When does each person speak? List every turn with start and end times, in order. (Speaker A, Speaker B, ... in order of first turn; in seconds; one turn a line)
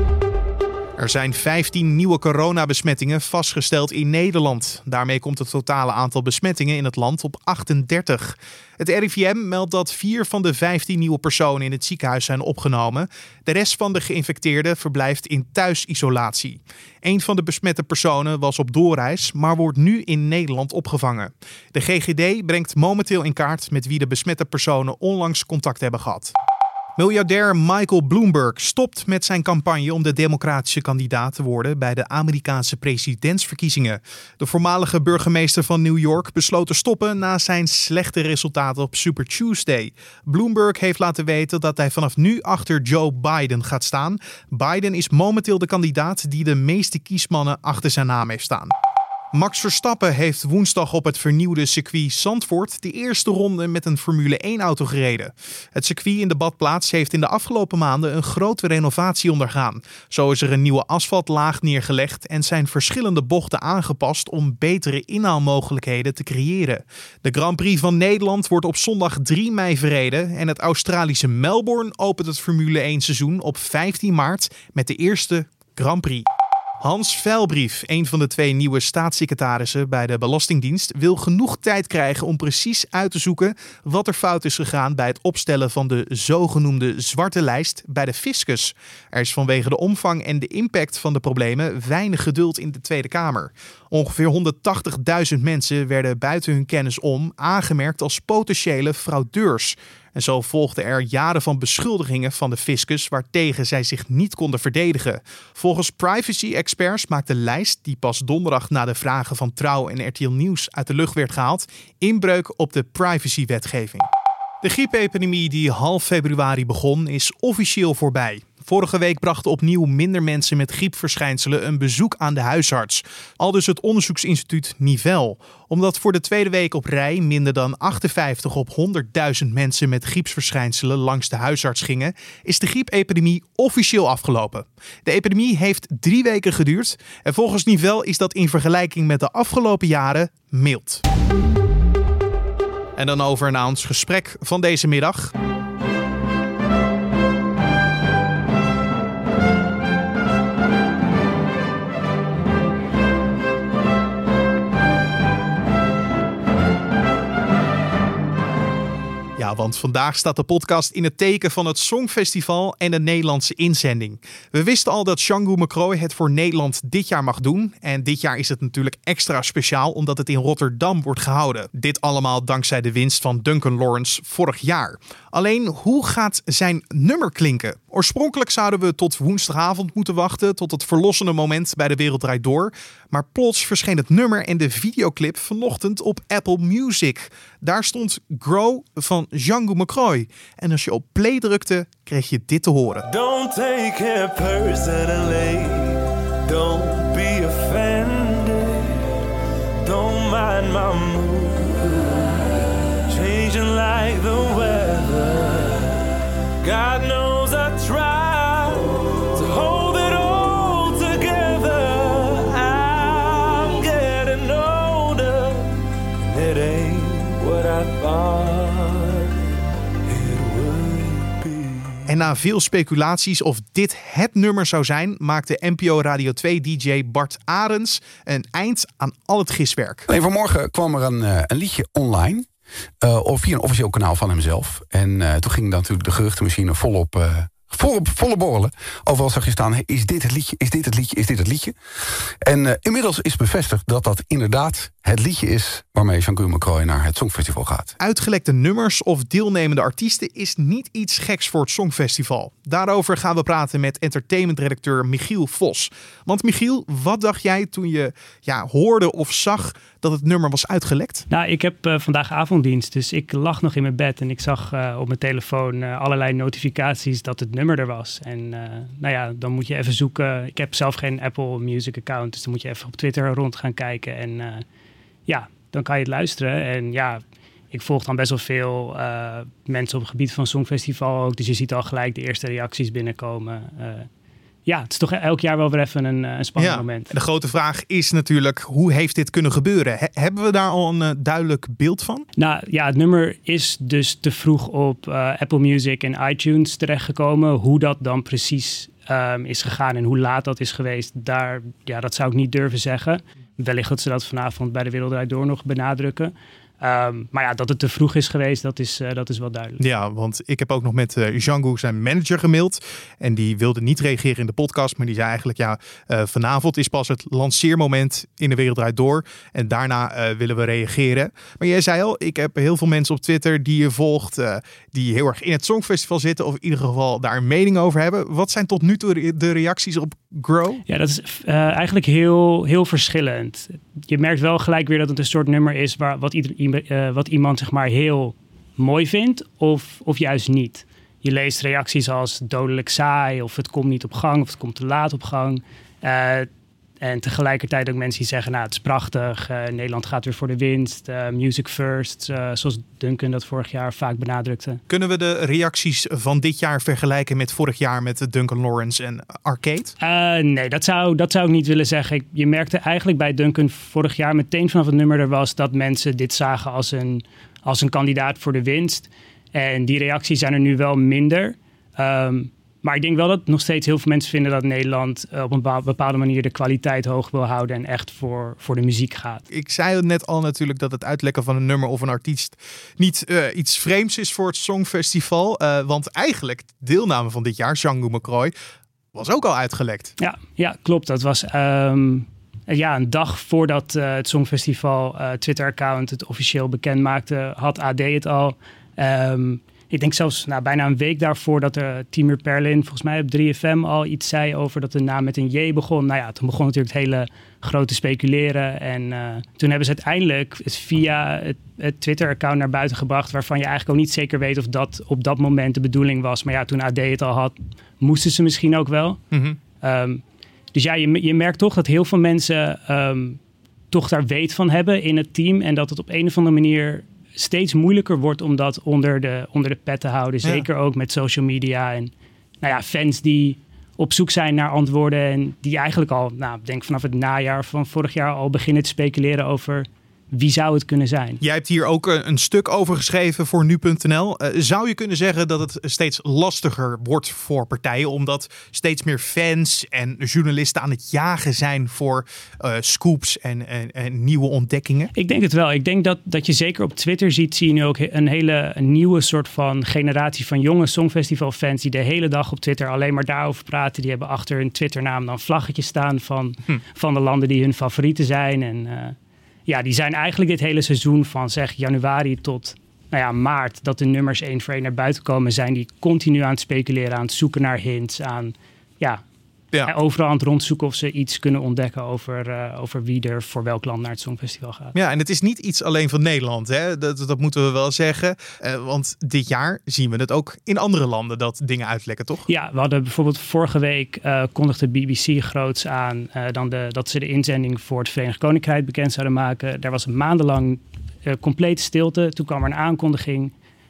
Speaker A: 1.0-26.3
Speaker A: 27.0-48.7
Speaker A: 49.3-76.2
Speaker A: 76.8-114.0
Speaker A: 114.6-141.0
Speaker A: 143.0-145.3
Speaker A: 159.4-193.1
Speaker B: 193.1-199.1
Speaker B: 199.8-219.3
Speaker B: 220.1-222.0
Speaker A: 222.1-230.1
Speaker C: 230.1-232.4
Speaker C: 233.0-241.7
Speaker C: 242.4-247.9
Speaker A: 248.0-261.2
Speaker D: 261.3-274.6
Speaker D: 275.3-277.2
Speaker D: 277.7-284.1
Speaker D: 284.6-287.1
Speaker A: 286.6-292.2
Speaker D: 292.4-309.8
Speaker A: 309.8-330.8
Speaker D: 330.9-346.5
Speaker D: 347.0-354.8
Speaker A: 354.9-359.9
Speaker D: 360.0-379.4
Speaker A: 379.5-388.5
Speaker A: 389.1-390.1
Speaker D: 390.2-419.2
Speaker A: 419.3-419.6
Speaker D: 419.8-420.2
Speaker D: 420.7-423.4
Speaker D: 423.9-432.1
Speaker D: 432.6-441.4
Speaker A: 441.4-455.1
Speaker D: 455.1-469.1
Speaker D: 469.7-479.2
Speaker D: 479.8-484.9
Speaker A: 484.9-492.4
Speaker D: 492.5-503.5